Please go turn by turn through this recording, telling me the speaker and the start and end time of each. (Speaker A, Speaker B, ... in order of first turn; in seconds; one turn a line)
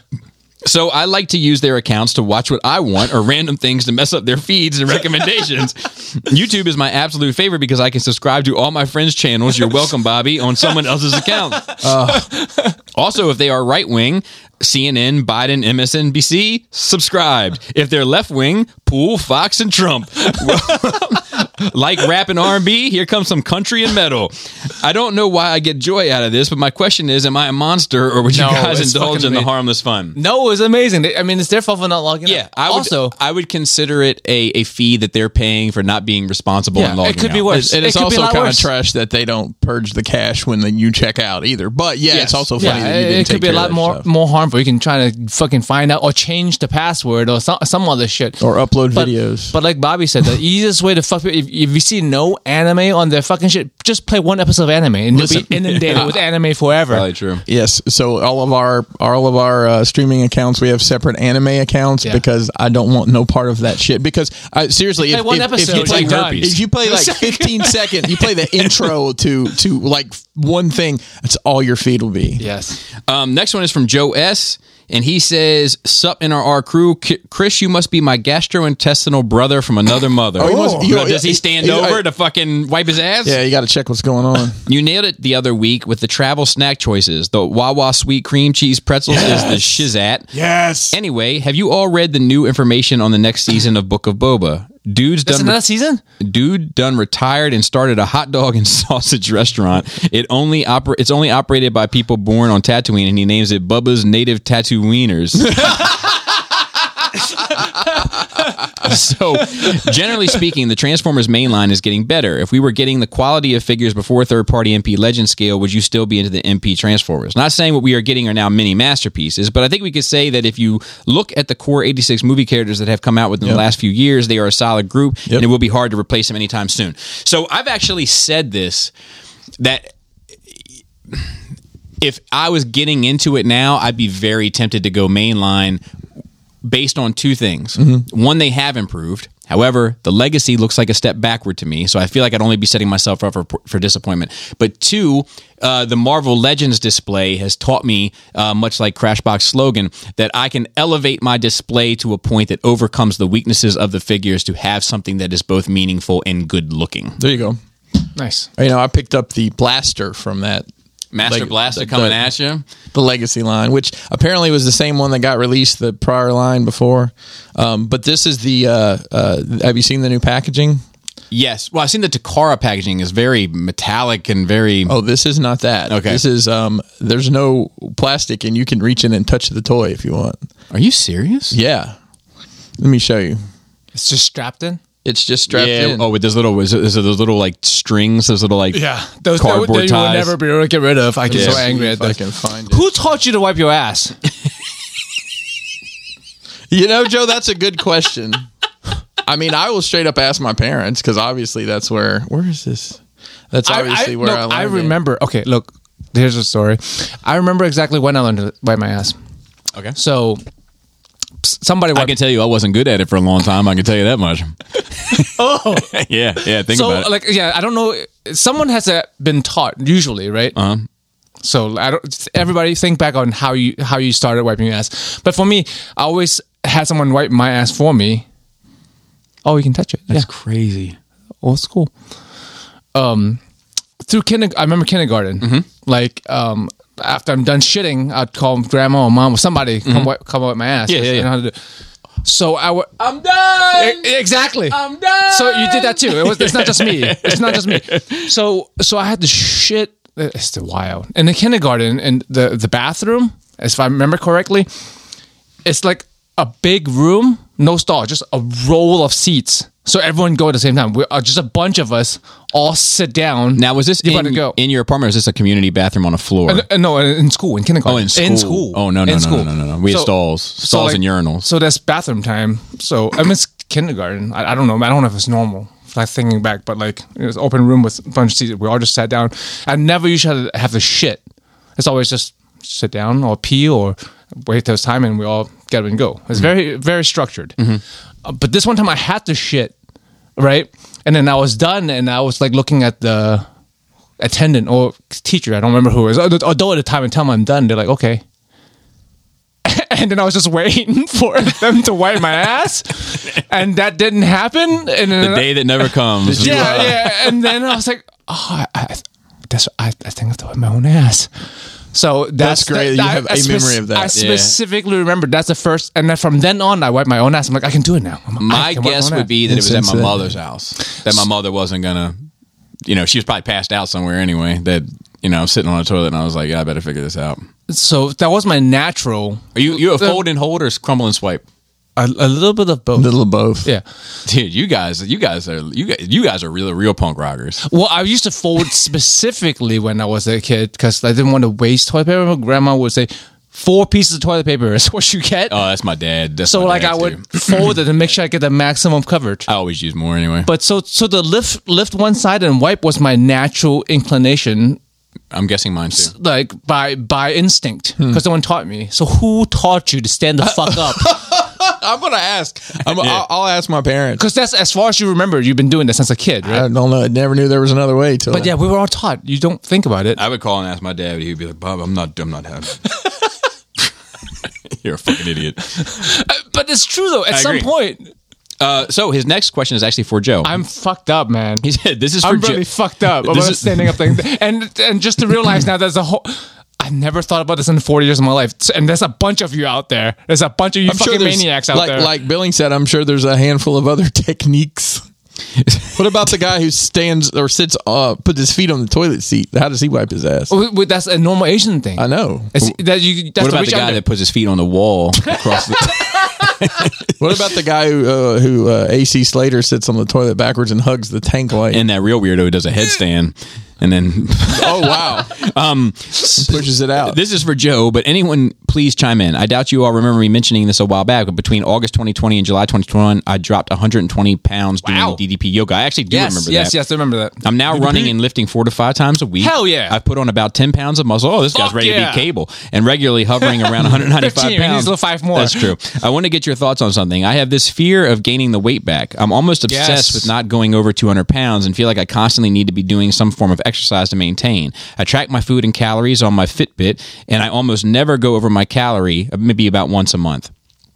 Speaker A: 0.7-11.8
Speaker B: 11.7-12.7
Speaker C: 11.8-12.3
Speaker A: 12.9-30.2
Speaker B: 28.3-29.5
Speaker B: 30.1-33.1
Speaker A: 32.2-37.5
Speaker B: 36.8-38.7
Speaker C: 37.5-44.1
Speaker A: 42.1-42.8
Speaker B: 42.1-48.4
Speaker C: 48.4-49.5
Speaker B: 48.9-57.1
Speaker C: 55.1-56.2
Speaker A: 55.6-56.2
Speaker A: 56.9-57.4
Speaker C: 57.5-72.4
Speaker B: 65.1-68.8
Speaker A: 65.7-66.6
Speaker B: 72.4-72.8
Speaker A: 73.1-83.4
Speaker C: 80.4-82.0
Speaker B: 80.5-80.8
Speaker C: 83.2-84.6
Speaker A: 84.7-90.3
Speaker C: 89.1-89.7
Speaker C: 90.3-91.0
Speaker A: 90.9-95.6
Speaker B: 95.3-96.0
Speaker A: 96.2-105.9
Speaker A: 108.7-128.9
Speaker A: 129.6-129.9
Speaker A: 132.0-135.8
Speaker A: 136.6-157.2
Speaker C: 137.8-138.0
Speaker C: 157.2-157.6
Speaker B: 158.2-158.5
Speaker C: 158.6-160.7
Speaker A: 161.1-162.7
Speaker C: 161.2-162.2
Speaker C: 162.9-170.8
Speaker A: 171.3-175.0
Speaker C: 174.9-180.4
Speaker A: 175.9-176.2
Speaker A: 180.7-181.6
Speaker C: 181.5-182.0
Speaker C: 182.8-183.4
Speaker B: 183.9-184.8
Speaker C: 185.0-186.1
Speaker A: 185.5-188.8
Speaker B: 188.7-194.2
Speaker A: 189.4-190.3
Speaker C: 191.3-192.8
Speaker A: 191.3-191.6
Speaker C: 196.7-198.5
Speaker C: 199.2-203.0
Speaker C: 203.5-205.0
Speaker B: 203.7-209.2
Speaker B: 209.9-210.4
Speaker B: 211.4-212.2
Speaker A: 211.9-217.1
Speaker B: 215.2-215.9
Speaker B: 216.4-220.6
Speaker A: 220.6-220.9
Speaker B: 221.4-228.2
Speaker B: 229.4-230.3
Speaker A: 230.1-231.0
Speaker B: 231.4-231.9
Speaker B: 232.9-233.4
Speaker B: 234.1-241.6
Speaker A: 235.4-235.7
Speaker A: 239.8-240.1
Speaker A: 240.9-241.3
Speaker B: 242.2-242.9
Speaker A: 243.0-244.2
Speaker B: 243.7-254.7
Speaker A: 244.7-248.3
Speaker B: 255.7-264.6
Speaker A: 263.6-266.6
Speaker B: 266.5-281.2
Speaker A: 267.9-271.5
Speaker B: 281.8-287.6
Speaker B: 288.2-289.7
Speaker B: 290.4-293.5
Speaker B: 294.2-298.2
Speaker B: 299.6-311.3
Speaker A: 305.2-307.1
Speaker C: 306.2-307.1
Speaker B: 311.9-319.3
Speaker C: 312.4-314.1
Speaker A: 314.1-314.6
Speaker A: 318.4-322.2
Speaker C: 319.5-320.3
Speaker A: 322.9-327.5
Speaker B: 327.7-330.2
Speaker A: 329.6-331.4
Speaker B: 332.0-333.1
Speaker C: 333.0-333.7
Speaker A: 334.3-337.6
Speaker B: 337.6-345.7
Speaker A: 345.5-347.3
Speaker B: 346.5-349.5
Speaker A: 349.5-350.5
Speaker B: 350.4-354.8
Speaker A: 355.3-356.1
Speaker B: 356.0-361.2
Speaker C: 360.5-364.2
Speaker A: 363.0-363.2
Speaker B: 364.2-366.7
Speaker C: 366.4-368.5
Speaker B: 368.3-370.2
Speaker A: 370.1-373.0
Speaker A: 374.7-376.0
Speaker B: 375.8-378.1
Speaker A: 377.3-377.7
Speaker A: 378.6-380.6
Speaker B: 380.4-381.6
Speaker A: 381.6-384.1
Speaker B: 382.2-392.1
Speaker C: 390.9-395.1
Speaker A: 395.6-396.0
Speaker C: 396.0-400.5
Speaker B: 400.5-404.0
Speaker C: 402.0-402.5
Speaker A: 403.4-407.2
Speaker B: 405.3-406.2
Speaker C: 407.2-411.8
Speaker A: 411.7-426.8
Speaker C: 414.5-415.3
Speaker C: 416.4-417.2
Speaker B: 424.8-425.2
Speaker B: 426.1-428.1
Speaker A: 427.4-450.5
Speaker B: 429.4-430.0
Speaker B: 431.5-432.3
Speaker B: 433.4-435.7
Speaker B: 439.7-440.3